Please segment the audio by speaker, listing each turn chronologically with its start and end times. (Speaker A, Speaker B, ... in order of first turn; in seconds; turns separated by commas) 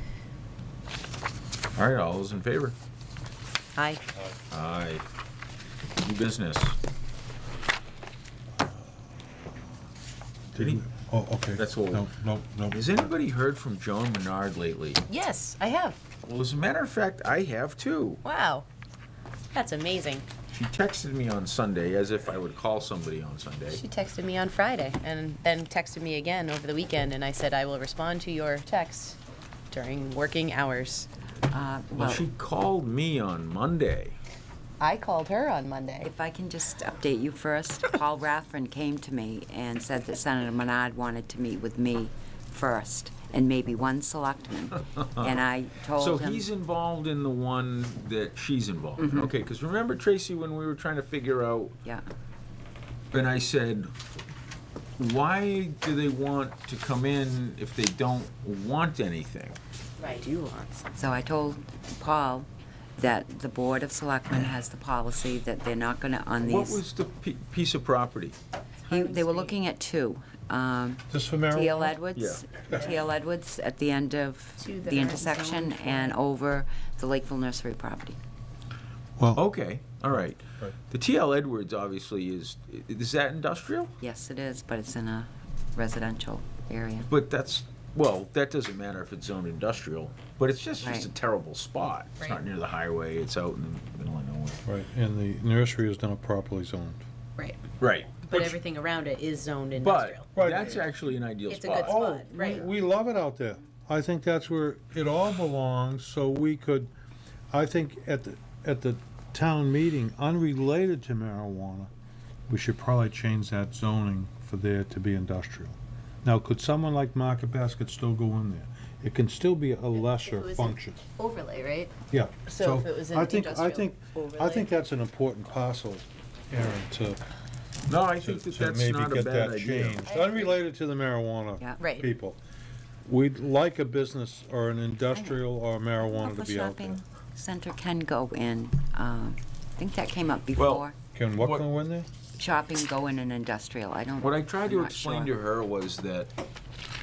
Speaker A: 1.7-2.7, Speaker B: 3.7-4.0, Speaker C: 4.1-4.4, Speaker A: 4.5-5.0, Speaker A: 6.0-6.8, Speaker C: 8.6-8.9, Speaker A: 10.5-10.8, Speaker C: 10.5-13.1, Speaker A: 11.6-12.1, Speaker A: 12.7-15.0, Speaker B: 15.1-16.0, Speaker A: 16.2-18.2, Speaker B: 18.2-18.6, Speaker B: 19.5-20.2, Speaker A: 20.5-23.8, Speaker B: 23.7-29.2, Speaker B: 29.7-31.1, Speaker D: 31.5-32.2, Speaker A: 31.9-34.1, Speaker B: 34.8-36.1, Speaker D: 36.0-46.5, Speaker A: 45.0-51.7, Speaker D: 49.0-49.3, Speaker A: 53.1-53.9, Speaker A: 55.0-59.6, Speaker B: 60.0-60.8, Speaker D: 60.9-66.8, Speaker A: 66.4-68.3, Speaker B: 68.8-69.5, Speaker D: 68.9-78.2, Speaker C: 71.1-72.0, Speaker A: 72.1-72.4, Speaker B: 74.6-76.2, Speaker A: 79.3-83.9, Speaker D: 84.0-87.1, Speaker A: 87.1-94.6, Speaker D: 90.8-91.1, Speaker C: 94.6-97.0, Speaker B: 97.4-97.6, Speaker A: 97.8-98.5, Speaker B: 98.3-100.7, Speaker A: 99.8-102.0, Speaker C: 100.3-100.8, Speaker B: 101.5-102.7, Speaker C: 101.7-106.9, Speaker C: 107.5-111.9, Speaker C: 112.5-121.0, Speaker B: 119.9-121.9, Speaker C: 122.1-127.2, Speaker B: 122.5-124.7, Speaker A: 127.9-130.0, Speaker C: 128.2-132.4, Speaker B: 130.1-130.6, Speaker B: 131.8-132.1, Speaker C: 133.1-137.0, Speaker D: 136.0-140.9, Speaker A: 140.6-141.7, Speaker C: 141.1-142.1, Speaker D: 142.4-145.3, Speaker A: 144.2-146.3